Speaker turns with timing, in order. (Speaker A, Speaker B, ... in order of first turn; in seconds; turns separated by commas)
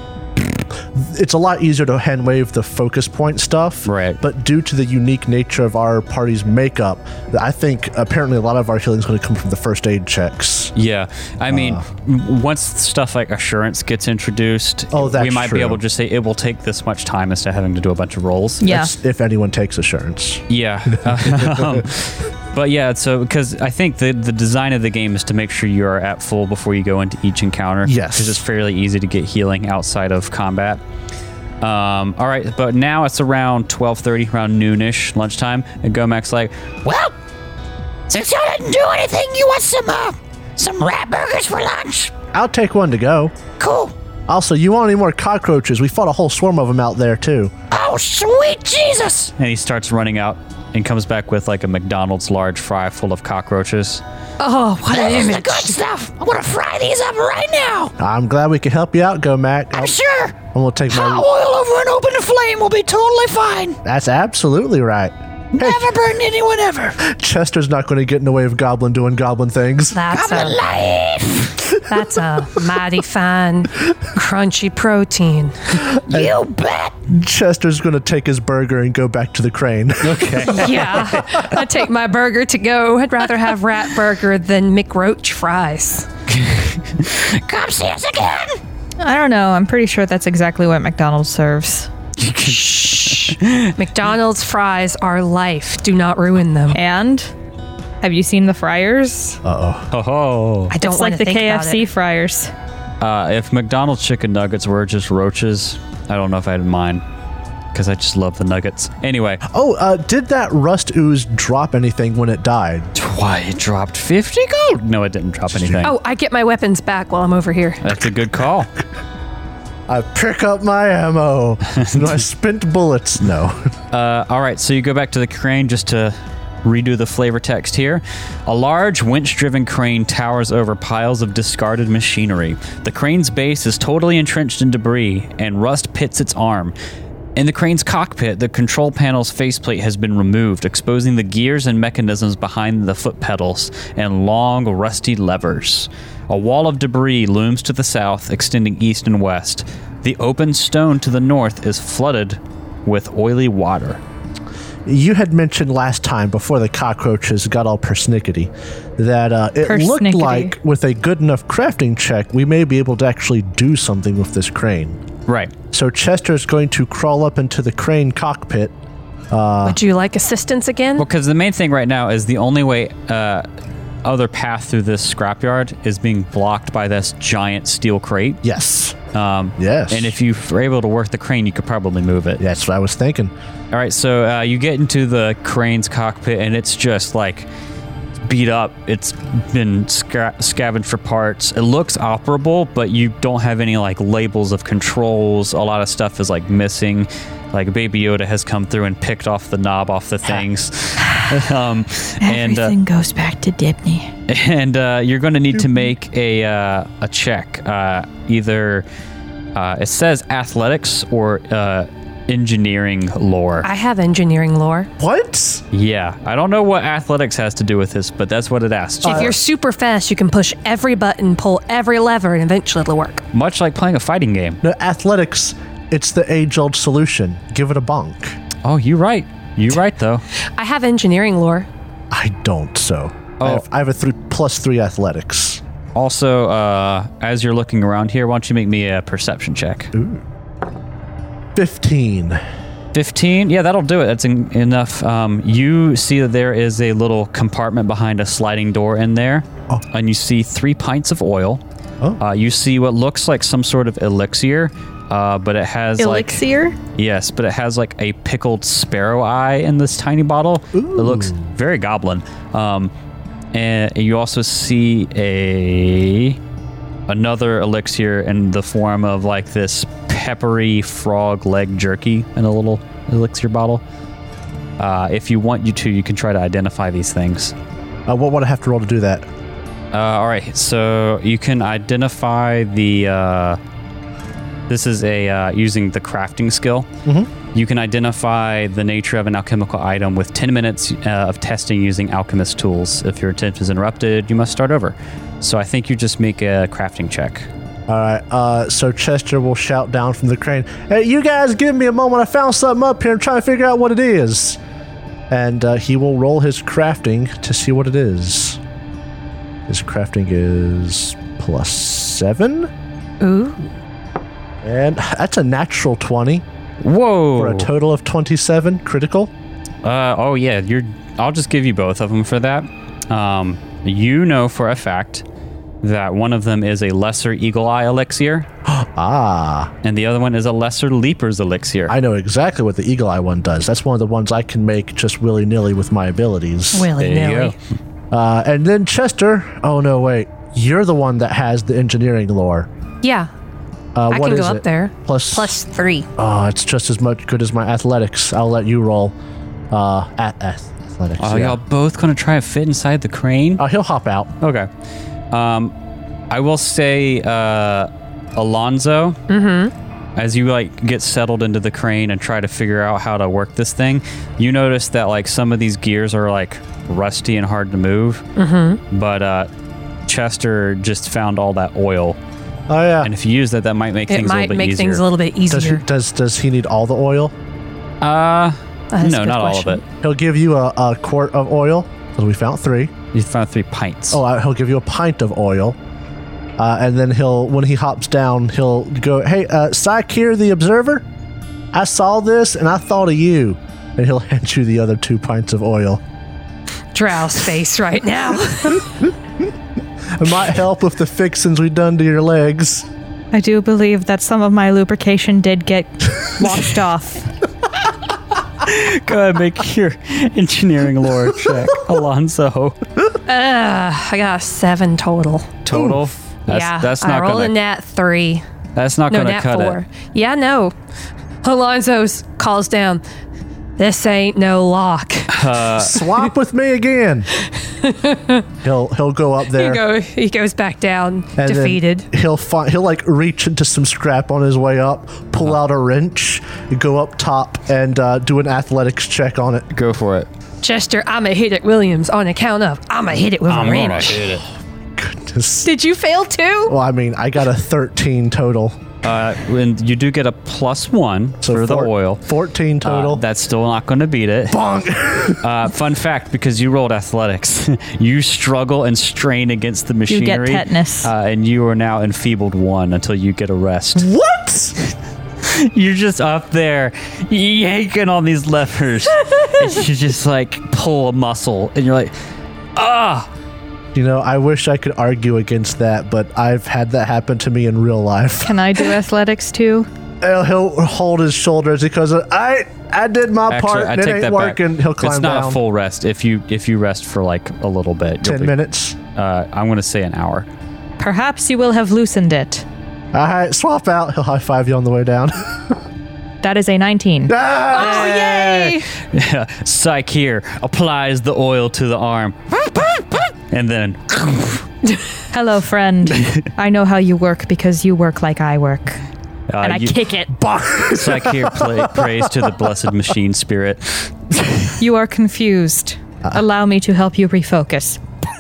Speaker A: 0.4-10.7, Speaker B: 3.9-4.2, Speaker B: 10.8-18.6, Speaker A: 11.5-11.8, Speaker A: 14.9-15.8, Speaker C: 18.6-18.9, Speaker A: 18.6-21.9, Speaker B: 20.5-30.8, Speaker A: 27.9-28.4, Speaker B: 31.6-37.1, Speaker B: 38.1-40.0, Speaker D: 38.1-42.1, Speaker B: 40.6-41.8, Speaker A: 42.3-43.3, Speaker D: 43.6-43.9, Speaker A: 44.3-47.5, Speaker D: 47.7-49.2, Speaker B: 47.9-54.0, Speaker E: 54.4-55.8, Speaker D: 54.9-57.9, Speaker B: 55.6-57.9, Speaker A: 58.0-61.3, Speaker D: 59.8-60.4, Speaker D: 60.9-63.8, Speaker A: 63.8-65.9, Speaker D: 65.6-66.9, Speaker B: 66.0-67.0, Speaker A: 67.0-70.1, Speaker E: 69.9-70.6, Speaker D: 70.2-71.5, Speaker B: 70.4-70.9, Speaker E: 71.8-75.8, Speaker A: 76.0-76.4, Speaker D: 76.1-76.9, Speaker A: 77.1-81.4, Speaker B: 80.0-81.2, Speaker E: 80.5-86.1, Speaker B: 86.3-88.5, Speaker C: 89.0-91.9, Speaker B: 92.2-93.7, Speaker E: 92.4-96.8, Speaker C: 96.7-97.3, Speaker C: 98.0-99.4, Speaker A: 99.4-99.9, Speaker B: 99.9-100.8, Speaker E: 100.7-101.9, Speaker C: 100.8-102.5, Speaker B: 103.0-107.0, Speaker B: 107.7-109.4, Speaker A: 109.5-112.9, Speaker B: 113.0-116.0, Speaker A: 115.5-115.9, Speaker E: 115.8-117.8, Speaker B: 117.8-118.7, Speaker A: 119.9-123.7, Speaker B: 121.8-122.0, Speaker B: 123.9-136.8, Speaker B: 137.4-154.0, Speaker A: 154.9-165.0, Speaker C: 159.7-160.5, Speaker B: 165.3-165.5, Speaker A: 165.7-168.7, Speaker A: 169.3-169.8, Speaker E: 169.7-171.0, Speaker B: 171.0-173.5, Speaker B: 174.0-178.4, Speaker A: 178.4-179.0, Speaker B: 179.1-182.4, Speaker A: 179.6-180.2, Speaker A: 182.4-183.3, Speaker B: 183.7-187.5, Speaker B: 188.2-202.8, Speaker C: 202.2-204.1, Speaker B: 204.3-208.9, Speaker B: 209.6-213.7, Speaker E: 213.6-214.9, Speaker A: 215.0-215.6, Speaker B: 215.7-219.4, Speaker A: 219.0-219.4, Speaker E: 219.0-223.2, Speaker B: 223.3-224.6, Speaker A: 224.6-228.4, Speaker B: 228.6-230.2, Speaker E: 230.6-231.7, Speaker A: 232.1-235.6, Speaker B: 233.4-233.7, Speaker B: 235.9-239.9, Speaker A: 239.9-240.2, Speaker A: 241.6-242.4, Speaker B: 242.9-251.6, Speaker B: 252.2-256.4, Speaker C: 256.0-256.8, Speaker B: 256.9-262.9, Speaker A: 260.7-261.5, Speaker B: 263.5-266.4, Speaker B: 267.1-273.8, Speaker B: 274.8-277.5, Speaker A: 278.1-279.3, Speaker B: 279.9-283.6, Speaker B: 284.7-286.9, Speaker A: 287.1-287.3, Speaker B: 287.5-297.5, Speaker A: 297.9-304.6, Speaker A: 305.3-308.6, Speaker A: 309.7-312.7, Speaker E: 313.2-313.7, Speaker A: 314.6-316.4, Speaker B: 316.8-317.7, Speaker A: 317.4-319.3, Speaker B: 319.8-325.2, Speaker B: 325.8-328.5, Speaker A: 328.7-329.7, Speaker B: 329.8-332.0, Speaker A: 331.9-336.9, Speaker E: 336.7-337.6, Speaker B: 337.0-337.6, Speaker A: 338.1-342.7, Speaker E: 343.0-343.3, Speaker A: 343.9-345.5, Speaker E: 344.1-346.1, Speaker A: 346.2-349.1, Speaker A: 349.7-351.6, Speaker B: 351.2-353.6, Speaker A: 353.6-354.3, Speaker B: 354.4-354.7, Speaker B: 355.3-355.7, Speaker B: 356.3-359.2, Speaker E: 359.3-359.7, Speaker B: 360.2-368.2, Speaker E: 368.4-368.8, Speaker B: 368.9-369.5, Speaker B: 370.1-372.2, Speaker A: 372.7-373.1, Speaker B: 373.0-375.0, Speaker E: 374.1-375.8, Speaker A: 375.5-377.3, Speaker B: 378.0-379.8, Speaker E: 378.9-379.8, Speaker A: 380.0-382.9, Speaker B: 383.1-384.2, Speaker A: 384.1-385.8, Speaker A: 386.6-391.1, Speaker A: 391.7-396.0, Speaker E: 396.9-398.9, Speaker A: 400.1-402.9, Speaker C: 403.3-407.3, Speaker B: 408.6-412.8, Speaker E: 413.3-415.6, Speaker B: 415.6-417.6, Speaker A: 415.7-416.0, Speaker E: 416.5-418.4, Speaker B: 418.8-419.8, Speaker E: 419.1-420.7, Speaker E: 421.4-423.0, Speaker E: 423.8-426.2, Speaker B: 425.3-426.0, Speaker A: 425.8-427.3, Speaker E: 427.8-428.4, Speaker A: 428.6-429.8, Speaker E: 429.5-432.1, Speaker A: 431.4-439.7, Speaker B: 439.7-440.3, Speaker E: 440.6-444.3, Speaker B: 443.5-444.4, Speaker A: 445.0-445.7, Speaker E: 445.6-446.8, Speaker A: 446.7-448.8, Speaker B: 449.0-452.2, Speaker A: 451.4-453.2, Speaker B: 452.8-454.6, Speaker A: 454.5-455.4, Speaker B: 455.4-464.1, Speaker C: 460.1-461.1, Speaker A: 464.0-464.8, Speaker B: 465.4-472.1, Speaker B: 472.8-473.3, Speaker A: 473.9-478.8, Speaker C: 478.4-479.9, Speaker A: 480.2-485.6, Speaker B: 483.5-488.6, Speaker A: 488.2-489.0, Speaker B: 489.1-490.5, Speaker C: 491.0-492.6, Speaker A: 493.1-495.8, Speaker C: 496.4-498.8, Speaker A: 497.3-498.8, Speaker E: 497.7-498.6, Speaker B: 498.9-504.7, Speaker C: 505.3-509.0, Speaker B: 506.1-506.4, Speaker B: 509.5-510.0, Speaker C: 509.6-510.3, Speaker A: 510.3-512.5, Speaker B: 510.9-514.7, Speaker C: 514.8-518.0